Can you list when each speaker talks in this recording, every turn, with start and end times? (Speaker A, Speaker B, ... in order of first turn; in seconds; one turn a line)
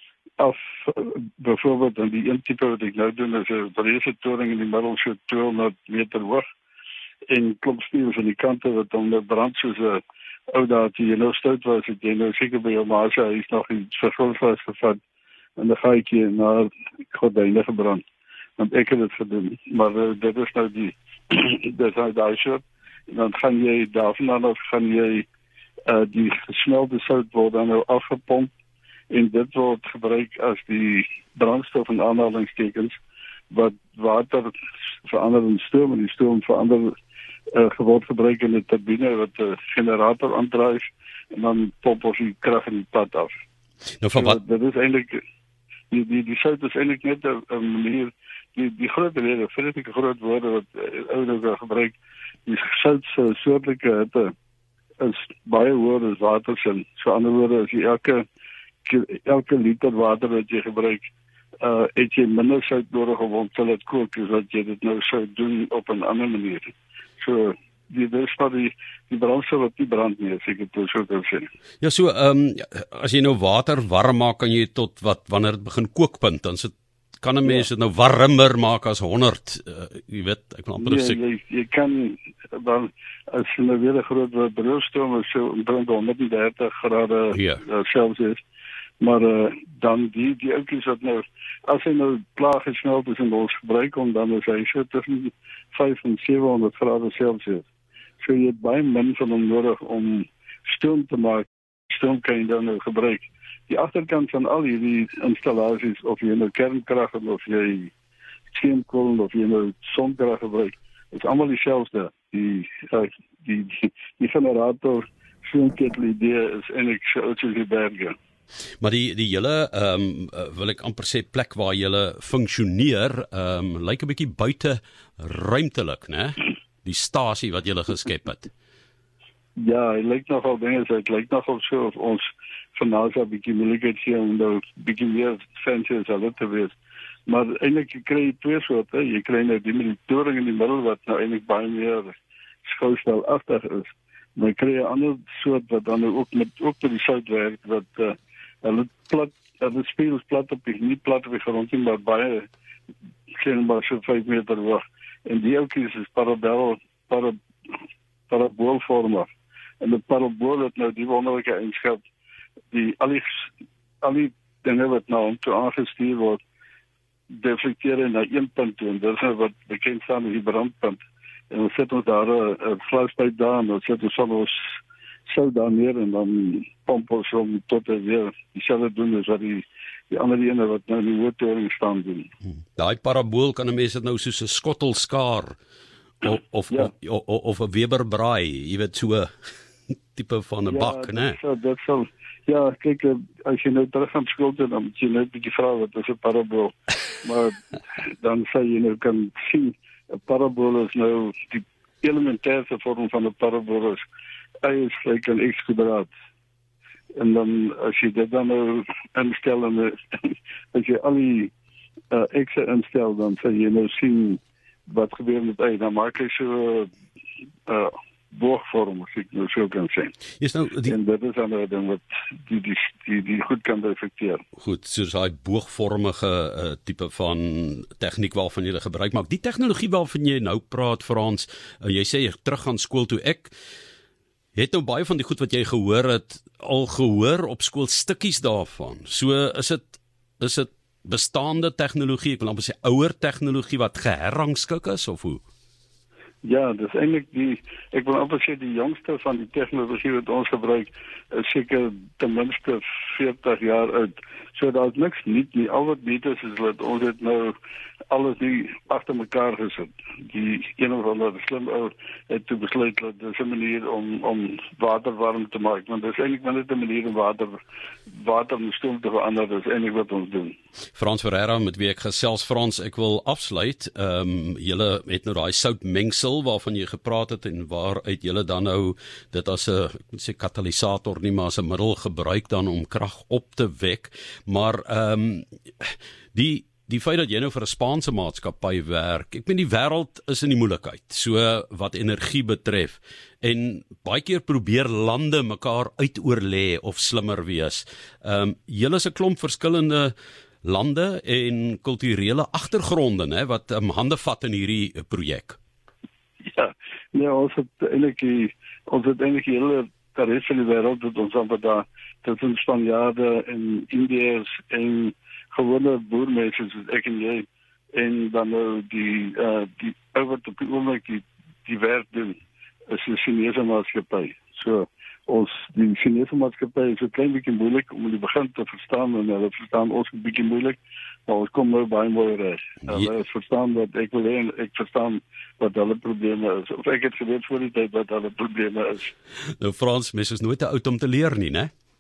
Speaker A: 0.4-6.4
Speaker A: 7.3-15.0
Speaker A: 15.6-18.0
Speaker A: 18.6-25.3
Speaker A: 25.9-28.5
Speaker A: 29.1-32.9
Speaker A: 33.5-34.5
Speaker A: 35.0-36.9
Speaker A: 37.5-43.3
Speaker B: 44.0-44.4
Speaker A: 44.1-45.2
Speaker A: 45.9-54.3
Speaker A: 55.0-58.2
Speaker A: 58.8-61.0
Speaker A: 61.6-71.5
Speaker B: 71.8-81.2
Speaker A: 80.8-88.4
Speaker B: 87.3-87.6
Speaker A: 89.0-97.7
Speaker A: 98.2-107.9
Speaker A: 108.5-118.1
Speaker B: 118.8-128.5
Speaker A: 129.6-136.8
Speaker A: 137.3-142.1
Speaker A: 142.6-152.5
Speaker A: 153.3-157.3
Speaker A: 158.3-162.0
Speaker A: 162.7-163.5
Speaker A: 164.0-166.4
Speaker A: 167.3-174.8
Speaker A: 175.2-182.3
Speaker B: 182.8-185.6
Speaker B: 186.2-189.3
Speaker B: 190.1-191.4
Speaker A: 190.7-204.0
Speaker A: 204.6-206.1
Speaker A: 207.1-211.5
Speaker A: 212.1-216.9
Speaker A: 217.7-220.1
Speaker B: 220.4-220.9
Speaker A: 220.8-224.4
Speaker B: 224.6-233.5
Speaker B: 234.6-245.4
Speaker A: 246.4-257.6
Speaker A: 258.1-267.6
Speaker A: 268.1-270.5
Speaker B: 270.9-300.1
Speaker B: 300.6-305.6
Speaker A: 306.5-322.4
Speaker A: 322.9-339.1
Speaker B: 339.6-341.7